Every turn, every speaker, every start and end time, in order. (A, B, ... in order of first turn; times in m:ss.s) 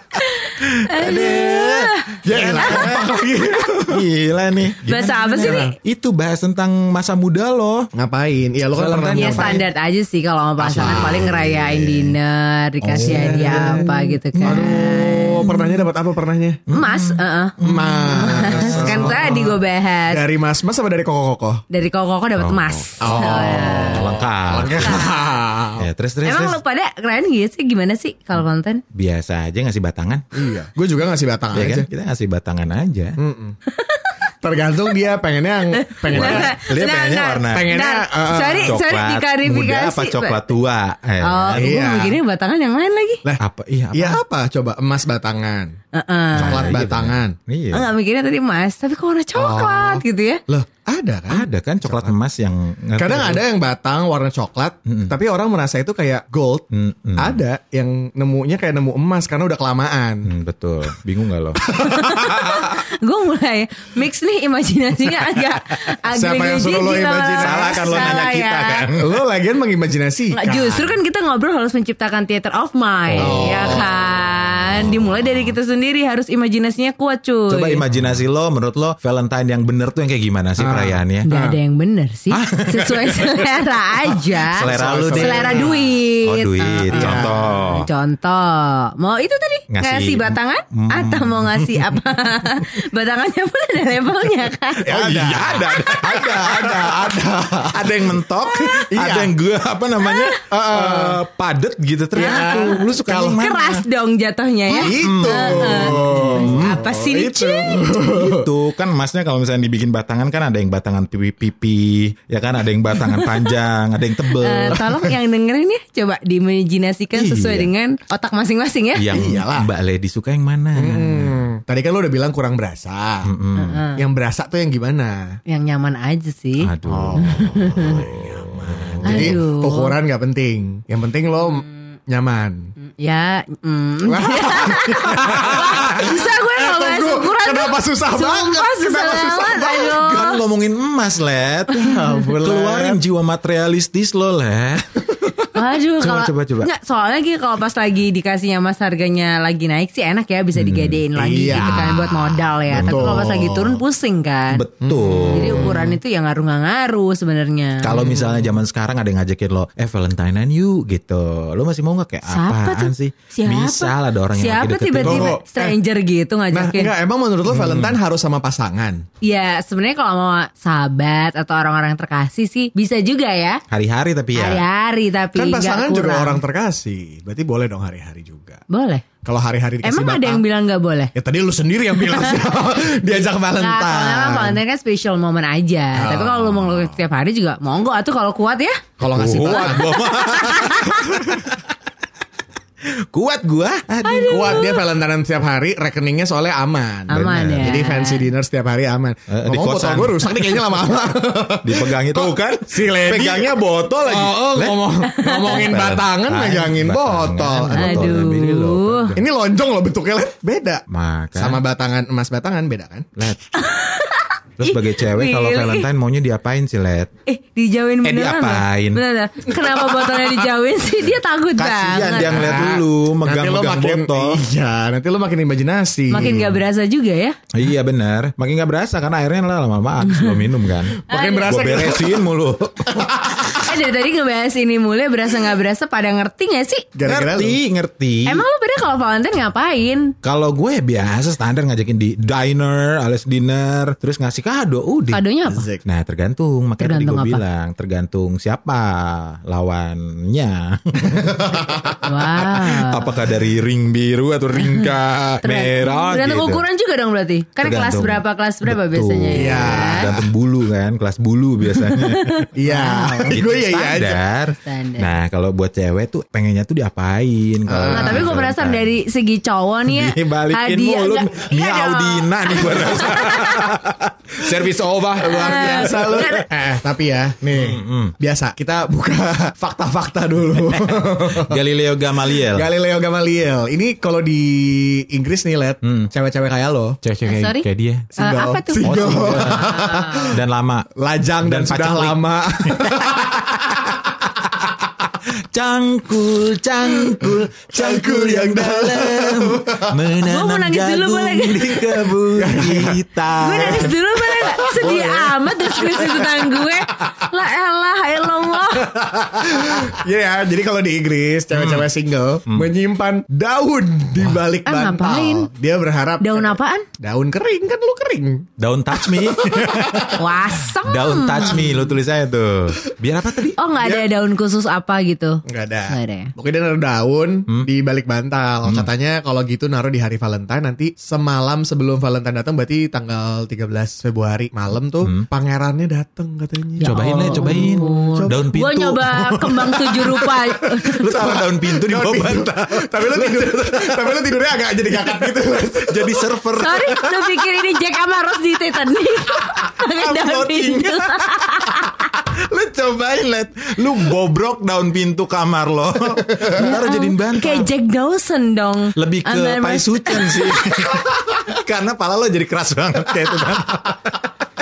0:00.2-0:02.9 A
0:00.5-0:03.1 B
0:02.2-0:04.0 C
0:03.8-0:07.9 B
0:04.8-0:05.8 A
0:05.3-0:05.8 C
0:07.9-0:09.6 C
0:08.7-0:09.6 B
0:09.1-0:15.4 A
0:10.6-0:12.0 C
0:10.7-0:11.8 B
0:12.8-0:15.8 B
0:12.9-0:13.9 C
0:14.4-0:16.6 C
0:16.7-0:19.2 B
0:16.7-0:20.2 A
0:17.6-0:19.6 C
0:20.1-0:21.6 C
0:21.7-0:24.2 A
0:22.4-0:25.0 B
0:23.0-0:25.9 C
0:24.7-0:25.1 A
0:25.8-0:26.6 B
0:26.2-0:28.8 A
0:28.9-0:30.2 B
0:30.3-0:31.9 C
0:31.5-0:33.2 B
0:33.2-0:33.6 C
0:33.7-0:34.2 A
0:34.4-0:36.6 C
0:35.7-0:40.4 A
0:36.1-0:37.8 B
0:37.5-0:38.8 C
0:38.6-0:41.7 B
0:41.2-0:43.2 A
0:41.5-0:42.2 C
0:43.2-0:45.8 C
0:43.4-0:44.2 B
0:45.9-0:46.7 A
0:46.3-0:47.9 B
0:46.3-0:47.4 C
0:47.7-0:50.4 A
0:49.3-0:52.1 C
0:51.3-0:53.4 B
0:53.0-1:00.3 C
0:54.9-0:55.1 B
0:56.7-0:57.4 B
1:00.2-1:01.6 B
1:01.8-1:08.9 A
1:01.8-1:02.7 C
1:06.1-1:08.3 C
1:07.4-1:09.1 B
1:08.8-1:11.0 C
1:10.3-1:17.8 A
1:13.1-1:13.9 B
1:13.2-1:13.9 C
1:14.8-1:15.5 B
1:17.5-1:21.3 B
1:20.6-1:21.6 C
1:21.2-1:35.0 A
1:22.3-1:27.9 B
1:24.6-1:25.9 C
1:26.9-1:27.6 C
1:29.7-1:32.0 B
1:34.8-1:39.3 C
1:34.9-1:43.8 B
1:40.0-1:40.4 A
1:40.5-1:41.2 C
1:42.1-1:43.4 C
1:42.2-1:42.8 A
1:43.4-1:47.9 A
1:44.7-1:48.5 C
1:44.7-1:46.8 B
1:47.9-1:54.8 B
1:53.0-1:53.5 A
1:54.3-1:59.1 A
1:54.7-1:55.1 C
1:57.1-1:57.7 B
1:59.0-2:01.4 B
1:59.1-1:59.7 C
2:00.8-2:03.3 C
2:03.2-2:03.8 B
2:03.6-2:04.0 A
2:04.0-2:05.4 C
2:05.5-2:08.1 A
2:06.6-2:09.4 B
2:06.9-2:12.7 C
2:09.0-2:09.9 A
2:12.9-2:20.4 A
2:14.0-2:20.1 C
2:19.9-2:21.8 B
2:21.7-2:23.0 C
2:21.8-2:22.1 A
2:22.4-2:25.1 B
2:25.5-2:34.6 A
2:26.0-2:26.7 B
2:30.6-2:32.0 B
2:31.2-2:33.8 C
2:32.7-2:33.3 B
2:34.5-2:35.8 B
2:34.8-2:35.9 C
2:35.3-2:37.9 A
2:37.8-2:45.3 B
2:37.9-2:38.6 C
2:42.2-2:46.9 A
2:45.0-2:45.8 C
2:46.5-2:49.0 C
2:47.5-2:48.0 B
2:49.2-2:53.6 A
2:53.7-2:54.6 B
2:54.3-2:56.4 A
2:55.4-2:58.6 C
2:58.7-2:59.0 A
2:59.2-3:00.4 C
2:59.8-3:01.1 A
3:01.1-3:04.6 C
3:02.1-3:02.4 A
3:03.2-3:08.8 A
3:06.0-3:07.0 C
3:09.0-3:11.4 C
3:09.0-3:11.5 B
3:09.5-3:11.0 A
3:13.1-3:14.7 B
3:14.0-3:14.8 A
3:14.3-3:28.3 C
3:17.1-3:17.8 B
3:17.1-3:18.3 A
3:19.3-3:20.9 B
3:21.6-3:24.9 B
3:25.1-3:25.7 A
3:25.4-3:29.2 B
3:27.7-3:29.1 A
3:29.2-3:30.8 C
3:30.9-3:31.6 B
3:31.4-3:33.1 C
3:33.6-3:35.9 A
3:34.6-3:37.1 B
3:37.2-3:42.6 A
3:38.0-3:39.0 B
3:41.6-3:44.4 B
3:42.1-3:46.6 C
3:46.1-3:47.4 A
3:46.2-3:46.5 B
3:47.5-3:52.9 B
3:50.1-3:50.4 A
3:51.0-3:52.2 C
3:51.1-3:51.6 A
3:52.9-3:53.7 C
3:53.4-3:56.9 A
3:56.9-3:57.6 C
3:57.0-3:58.4 B
3:58.2-4:00.1 A
4:00.2-4:05.2 B
4:05.1-4:05.7 A
4:05.5-4:05.8 C
4:05.8-4:16.6 B
4:06.8-4:07.4 A
4:11.6-4:11.9 C
4:12.0-4:13.2 A
4:15.4-4:20.1 A
4:17.6-4:22.4 B
4:19.3-4:20.3 C
4:21.7-4:23.4 A
4:22.6-4:24.2 C
4:23.3-4:28.9 B
4:24.5-4:25.1 A
4:27.7-4:28.3 C
4:27.9-4:33.7 A
4:29.9-4:36.4 B
4:35.2-4:41.6 C
4:35.3-4:36.5 A
4:37.5-4:38.1 B
4:40.6-4:42.7 B
4:42.3-4:47.0 C
4:45.8-4:46.1 B
4:47.0-4:48.1 B
4:47.2-4:47.6 A
4:48.1-4:50.4 C
4:48.2-4:50.0 A
4:48.8-4:50.9 B
4:51.0-4:53.8 C
4:51.4-4:53.0 B
4:55.5-5:03.9 B
4:57.7-4:59.9 C
5:00.2-5:02.0 A
5:02.4-5:06.5 C
5:03.4-5:09.0 A
5:08.9-5:20.2 C
5:11.5-5:11.9 B
5:14.6-5:15.5 A
5:16.2-5:16.8 A
5:18.6-5:20.2 B
5:20.2-5:21.6 A
5:20.8-5:23.6 B
5:23.6-5:26.3 A
5:23.8-5:24.1 C
5:25.4-5:38.5 C
5:28.6-5:28.9 B
5:35.0-5:35.3 B
5:36.8-5:41.1 A
5:36.8-5:40.3 B
5:40.6-5:46.3 C
5:40.8-5:44.2 B
5:45.9-5:47.1 B
5:46.6-5:52.1 A
5:49.8-5:57.7 B
5:56.6-6:00.5 A
5:59.0-6:04.2 B